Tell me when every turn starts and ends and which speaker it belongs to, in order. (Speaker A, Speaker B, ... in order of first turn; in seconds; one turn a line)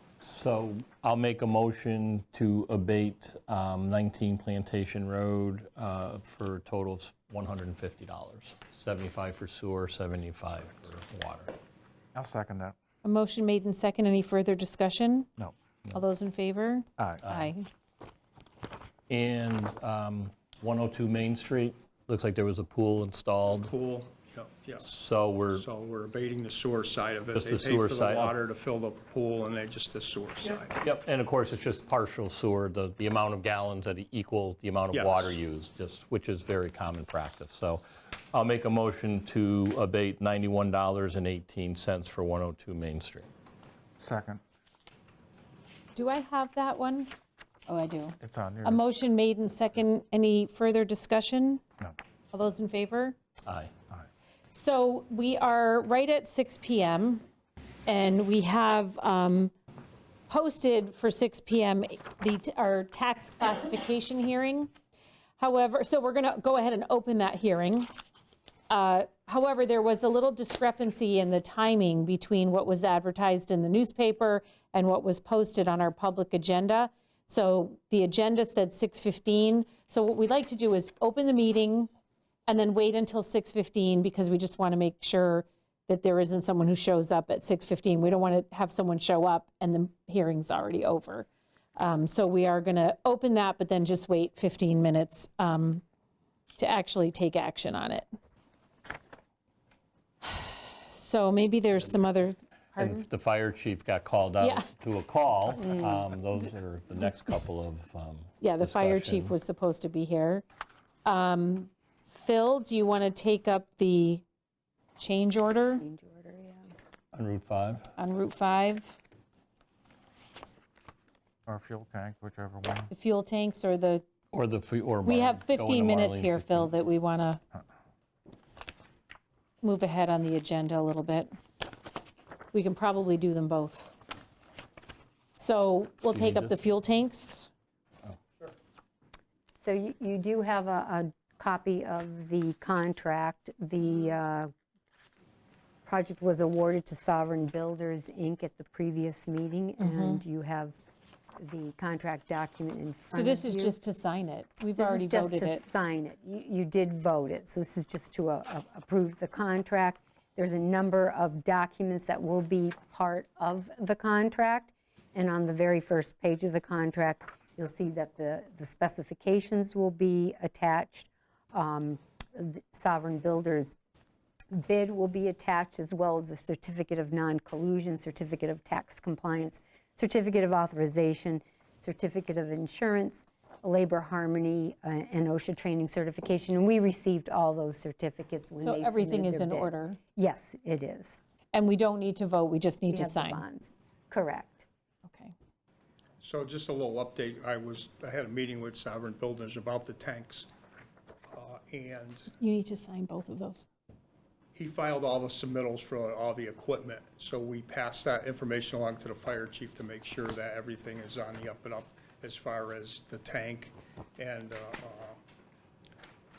Speaker A: 0.2-11.5
Speaker B: 12.2-12.8
Speaker C: 13.0-15.3
Speaker C: 15.9-17.7
Speaker B: 17.0-17.2
Speaker A: 17.2-17.5
Speaker A: 19.1-23.7
Speaker D: 23.6-24.9
Speaker A: 24.8-25.6
Speaker D: 25.5-30.8
Speaker A: 27.3-28.4
Speaker A: 30.8-43.3
Speaker D: 34.9-35.4
Speaker B: 44.0-44.4
Speaker C: 46.0-47.1
Speaker C: 47.7-51.6
Speaker B: 48.2-48.8
Speaker C: 52.3-53.2
Speaker A: 53.5-53.7
Speaker C: 54.5-57.2
Speaker C: 57.9-59.5
Speaker C: 60.3-64.7
Speaker C: 65.4-67.9
Speaker C: 68.7-81.9
Speaker C: 82.5-95.8
Speaker C: 96.6-98.1
Speaker C: 100.2-103.1
Speaker A: 102.8-109.3
Speaker C: 104.4-104.7
Speaker C: 108.4-110.4
Speaker C: 111.0-114.2
Speaker C: 115.0-115.8
Speaker E: 115.8-116.7
Speaker A: 117.1-117.9
Speaker C: 118.0-119.0
Speaker B: 121.5-122.9
Speaker C: 122.9-124.1
Speaker A: 124.3-126.7
Speaker C: 125.0-127.4
Speaker C: 129.6-131.3
Speaker C: 132.5-133.9
Speaker C: 135.4-137.5
Speaker A: 136.1-136.6
Speaker E: 139.6-144.5
Speaker E: 145.8-150.8
Speaker C: 149.8-150.2
Speaker E: 151.4-153.8
Speaker C: 153.2-155.7
Speaker E: 154.8-173.8
Speaker E: 174.5-191.2
Speaker C: 188.6-190.0
Speaker C: 191.5-193.5
Speaker E: 192.9-194.7
Speaker C: 195.1-195.3
Speaker D: 196.2-200.5
Speaker D: 201.3-202.3
Speaker C: 202.4-203.7
Speaker D: 204.6-215.2